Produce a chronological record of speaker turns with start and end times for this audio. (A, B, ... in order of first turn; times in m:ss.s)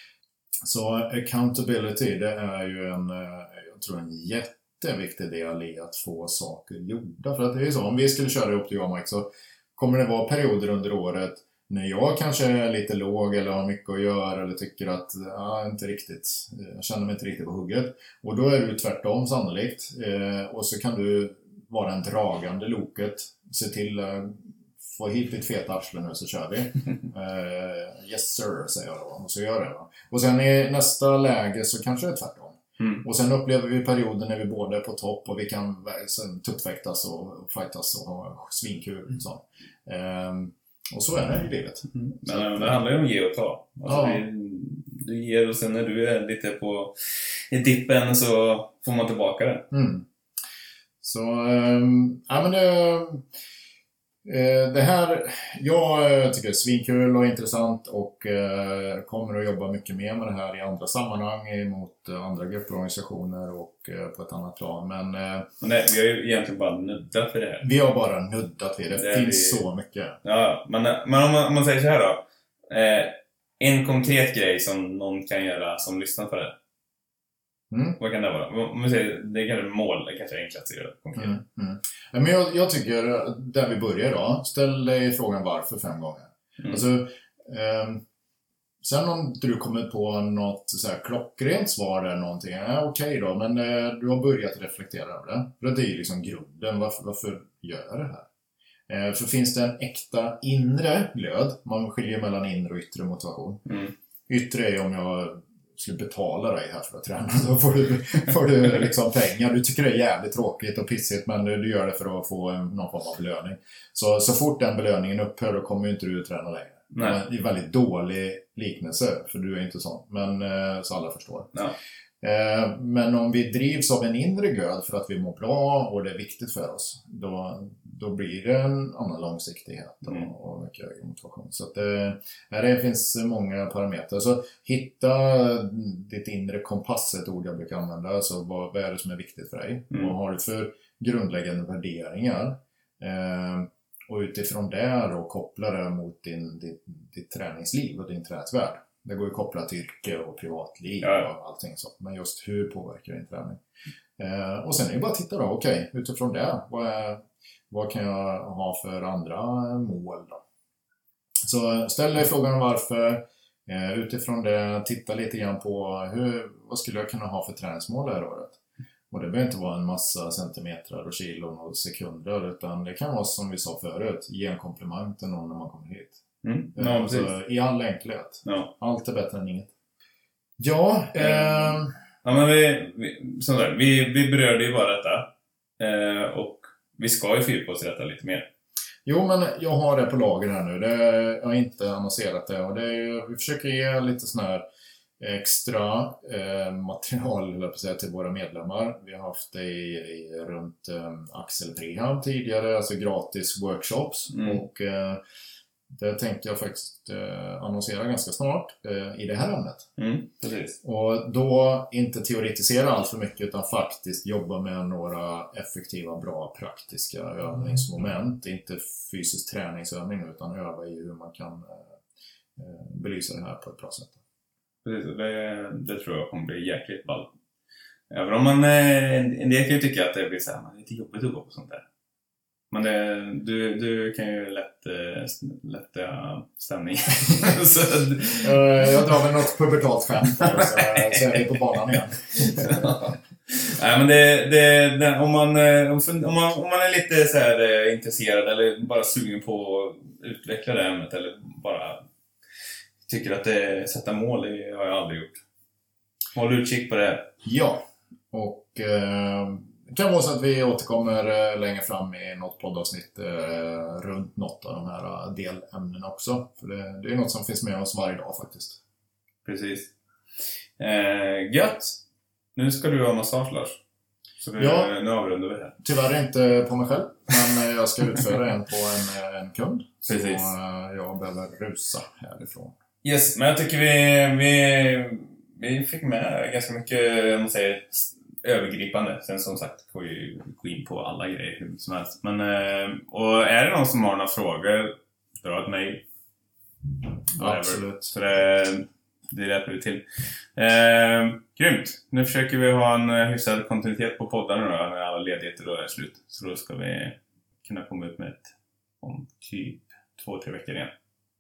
0:00.6-0:42.8 A
0:41.9-0:49.7 B
0:43.9-0:44.2 A
0:49.7-0:50.0 A
0:51.0-0:53.2 A
0:54.2-1:05.5 A
1:05.6-1:07.7 B
1:07.6-1:10.2 A
1:08.9-1:09.6 B
1:10.2-1:16.6 B
1:17.7-1:18.0 A
1:18.0-1:21.4 B
1:21.2-1:28.0 A
1:28.8-1:38.3 A
1:38.9-2:01.6 A
1:56.9-1:57.2 B
2:02.2-2:33.6 A
2:31.0-2:31.3 B
2:34.2-2:40.4 A
2:41.5-2:48.6 A
2:49.1-2:56.2 A
2:56.4-2:57.3 B
2:56.8-2:59.7 A
2:58.4-2:58.7 B
3:00.6-3:01.9 A
3:01.2-3:08.5 B
3:09.0-3:14.6 A
3:15.2-3:25.2 A
3:24.3-3:24.6 B
3:25.9-3:29.9 A
3:30.0-3:30.8 B
3:30.8-3:42.0 A
3:42.6-3:44.2 A
3:44.8-3:47.3 B
3:48.1-3:51.8 B
3:52.7-3:59.1 B
3:58.4-4:02.9 A
4:00.4-4:01.4 B
4:02.4-4:12.0 B
4:13.1-4:15.4 B
4:16.3-4:17.3 B
4:17.4-4:28.8 A
4:29.4-4:29.9 B
4:30.8-4:32.0 B
4:32.6-4:33.8 B
4:34.4-4:35.8 B
4:34.6-4:34.9 A
4:35.8-4:42.8 A
4:40.1-4:40.5 B
4:43.0-4:56.0 B
4:57.3-5:10.9 B
4:57.4-4:58.1 A